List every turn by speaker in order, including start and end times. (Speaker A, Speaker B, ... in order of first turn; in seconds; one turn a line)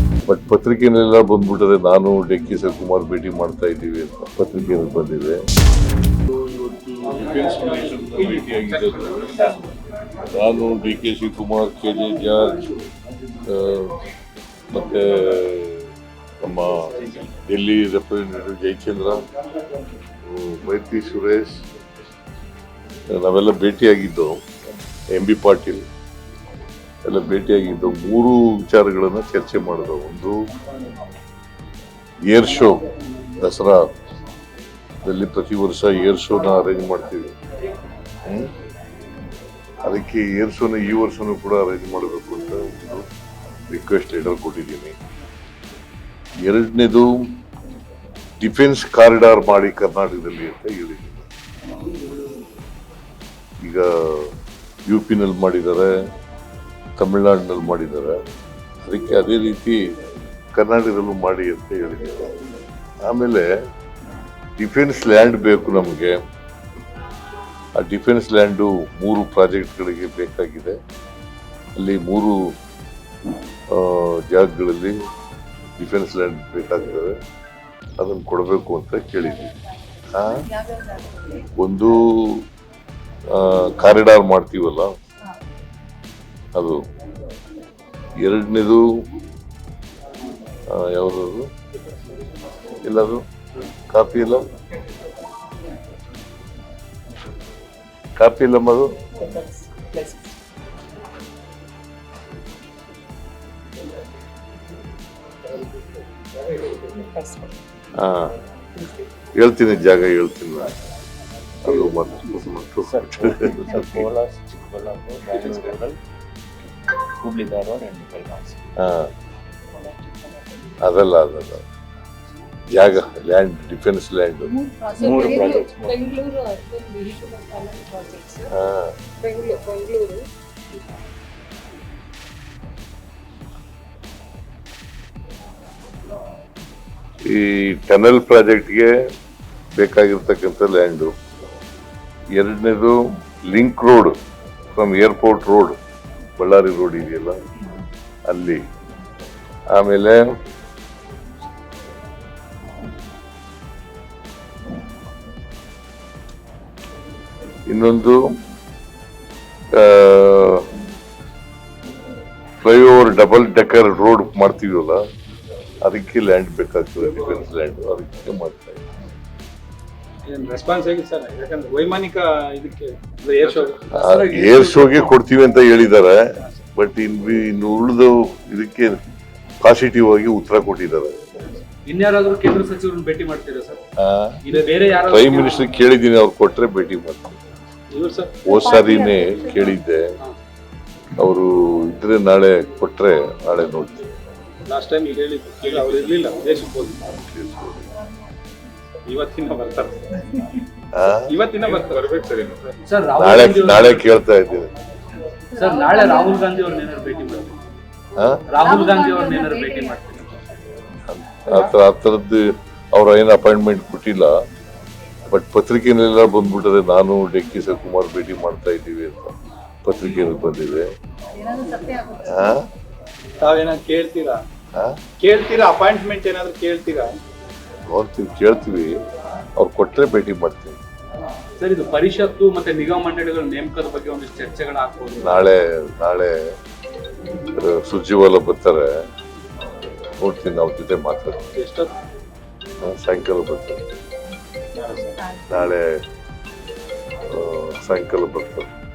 Speaker A: 0.3-5.4
Speaker A: 6.3-9.6
Speaker B: 7.4-9.2
Speaker A: 10.3-12.6
Speaker A: 13.5-13.9
Speaker A: 14.7-15.9
Speaker A: 16.4-19.2
Speaker C: 17.0-17.3
Speaker A: 20.2-21.5
Speaker A: 23.1-24.4
Speaker A: 25.1-25.8
Speaker A: 27.1-30.4
Speaker A: 32.3-32.8
Speaker A: 33.4-33.9
Speaker A: 35.0-37.3
Speaker A: 39.8-43.0
Speaker A: 43.7-44.9
Speaker A: 46.4-47.2
Speaker A: 48.4-51.3
Speaker A: 53.6-54.3
Speaker A: 54.9-55.9
Speaker A: 57.0-58.2
Speaker A: 58.9-59.9
Speaker A: 60.5-62.3
Speaker A: 63.0-63.5
Speaker A: 64.6-66.2
Speaker A: 67.8-70.8
Speaker A: 71.8-72.4
Speaker A: 73.7-75.0
Speaker A: 75.8-77.2
Speaker A: 78.0-79.5
Speaker A: 80.2-80.5
Speaker D: 80.7-81.3
Speaker A: 81.6-82.4
Speaker A: 83.3-84.9
Speaker A: 86.5-86.8
Speaker A: 88.2-88.8
Speaker A: 90.7-91.4
Speaker A: 92.8-93.2
Speaker A: 93.9-94.5
Speaker A: 98.2-98.9
Speaker D: 99.2-100.3
Speaker D: 106.7-107.5
Speaker A: 108.0-108.3
Speaker A: 109.4-110.7
Speaker A: 111.6-114.1
Speaker C: 112.8-116.0
Speaker C: 117.1-118.7
Speaker A: 118.8-119.1
Speaker A: 120.8-121.7
Speaker A: 122.7-124.5
Speaker D: 124.5-128.5
Speaker C: 124.9-126.1
Speaker A: 128.5-128.9
Speaker D: 129.2-130.2
Speaker A: 137.3-138.9
Speaker A: 139.8-141.1
Speaker A: 142.3-144.1
Speaker A: 144.7-145.8
Speaker A: 146.4-147.4
Speaker A: 148.3-148.6
Speaker A: 149.7-150.2
Speaker A: 157.7-158.3
Speaker A: 159.7-160.7
Speaker A: 162.6-165.0
Speaker A: 165.8-168.8
Speaker B: 167.0-167.4
Speaker B: 170.2-173.8
Speaker E: 173.4-175.1
Speaker A: 173.9-179.0
Speaker A: 179.6-181.2
Speaker E: 181.8-183.8
Speaker A: 184.0-184.4
Speaker E: 184.4-185.6
Speaker A: 185.0-187.4
Speaker B: 187.9-188.4
Speaker A: 188.4-190.0
Speaker D: 188.5-189.8
Speaker A: 191.2-194.1
Speaker B: 194.7-197.0
Speaker E: 195.7-196.1
Speaker A: 197.1-197.9
Speaker B: 199.0-200.4
Speaker A: 200.9-201.3
Speaker B: 201.3-202.8
Speaker E: 202.8-204.0
Speaker A: 203.2-204.7
Speaker E: 205.5-207.6
Speaker D: 205.6-206.6
Speaker A: 208.2-208.4
Speaker E: 208.5-210.2
Speaker D: 208.6-210.2
Speaker A: 211.1-212.4
Speaker A: 212.9-214.3
Speaker A: 215.3-219.3
Speaker A: 219.8-220.9
Speaker D: 221.3-222.4
Speaker A: 222.2-222.6
Speaker B: 223.4-224.4
Speaker B: 225.2-227.2
Speaker A: 227.9-228.9
Speaker A: 229.6-230.8
Speaker E: 231.6-235.4
Speaker A: 235.2-236.3
Speaker A: 237.6-238.9
Speaker A: 240.2-241.4
Speaker B: 241.5-241.9
Speaker A: 242.8-243.8
Speaker B: 244.8-245.1
Speaker D: 245.2-245.7
Speaker A: 245.5-245.8
Speaker A: 247.3-248.7